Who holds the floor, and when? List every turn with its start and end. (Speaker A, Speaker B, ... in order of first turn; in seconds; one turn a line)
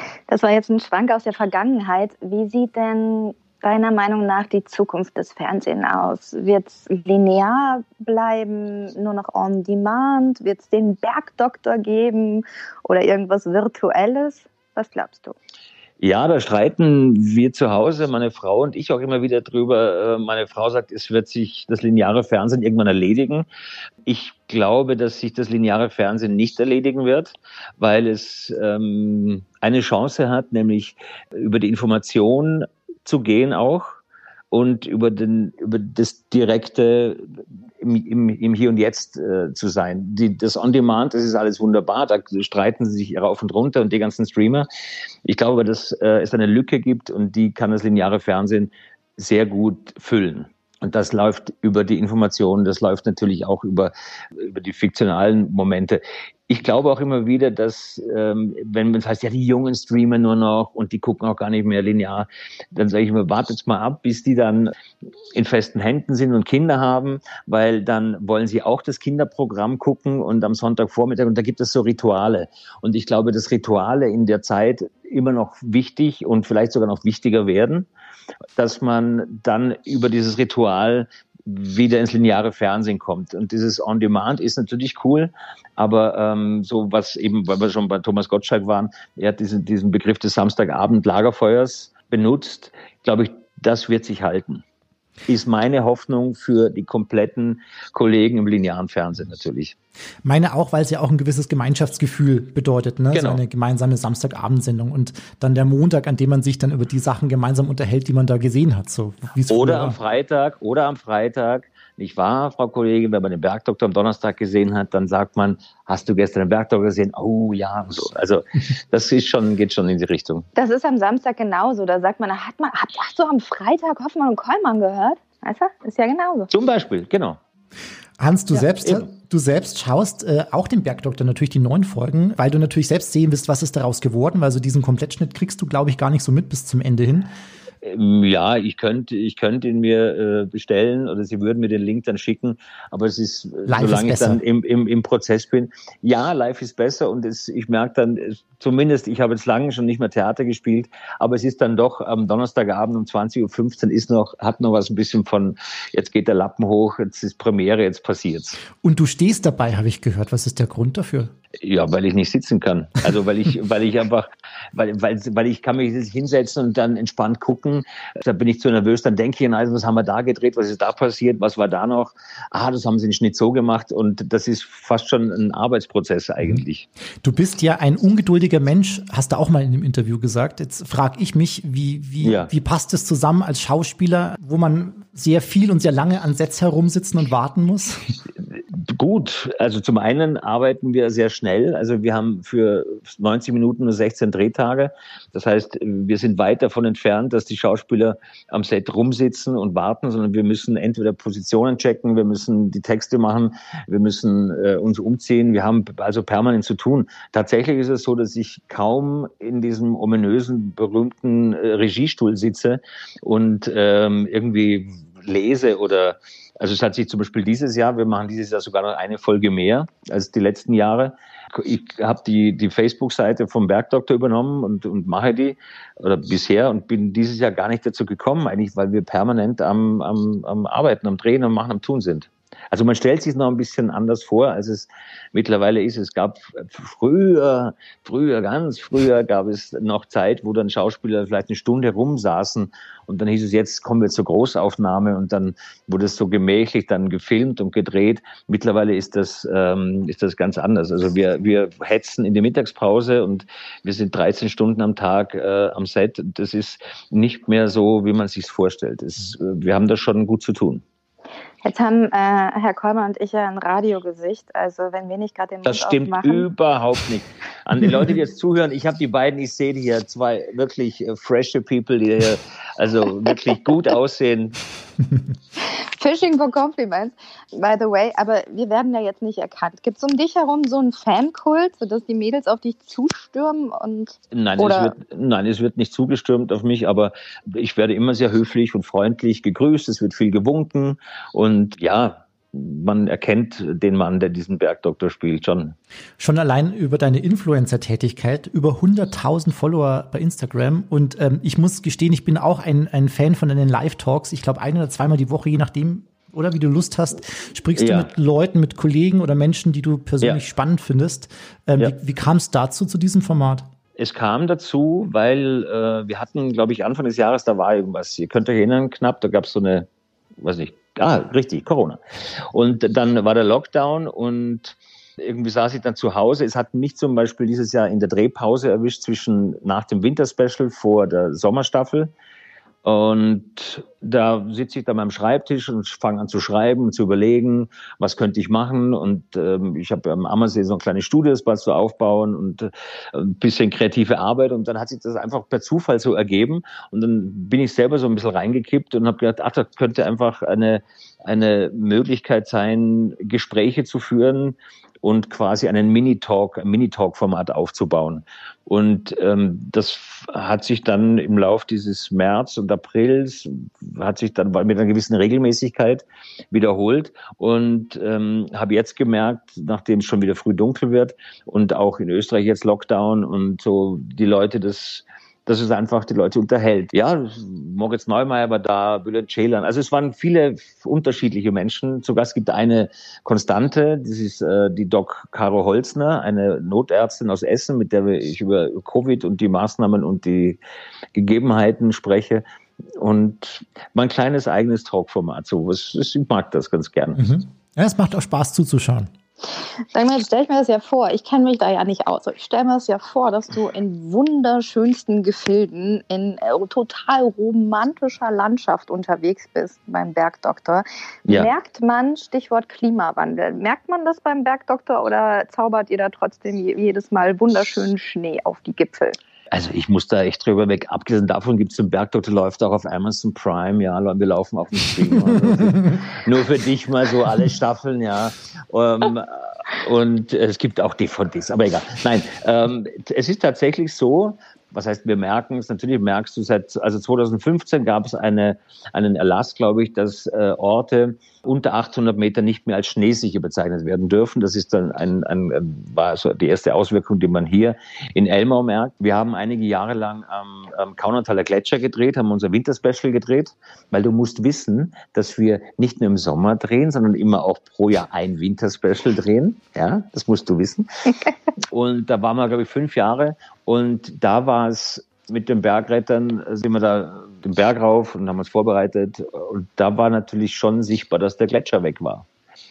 Speaker A: 0.3-15.3
Speaker B: 16.0-23.5
Speaker B: 24.0-34.0
Speaker B: 34.5-37.2
Speaker B: 37.8-44.7
Speaker B: 45.2-64.7
Speaker B: 65.3-77.9
Speaker B: 78.6-94.6
Speaker B: 95.3-99.7
Speaker C: 100.2-110.0
Speaker B: 103.1-103.4
Speaker B: 109.5-120.5
Speaker A: 120.5-126.5
Speaker B: 126.5-127.4
Speaker C: 128.2-137.3
Speaker B: 128.5-129.1
Speaker B: 137.8-158.6
Speaker C: 143.7-144.4
Speaker C: 158.8-161.3
Speaker B: 161.6-176.9
Speaker C: 177.2-188.1
Speaker B: 182.2-182.5
Speaker B: 188.5-260.8
Speaker A: 261.6-266.5
Speaker B: 265.6-274.6
Speaker A: 275.6-284.9
Speaker B: 284.3-295.8
Speaker C: 296.2-313.7
Speaker B: 307.8-308.1
Speaker B: 314.0-319.9
Speaker B: 320.4-322.0
Speaker B: 322.5-332.1
Speaker B: 332.8-390.6
Speaker B: 391.1-392.4
Speaker B: 392.9-397.2
Speaker C: 397.1-399.1
Speaker A: 399.9-419.2
Speaker B: 411.2-411.5
Speaker B: 419.5-460.9
Speaker B: 461.7-472.2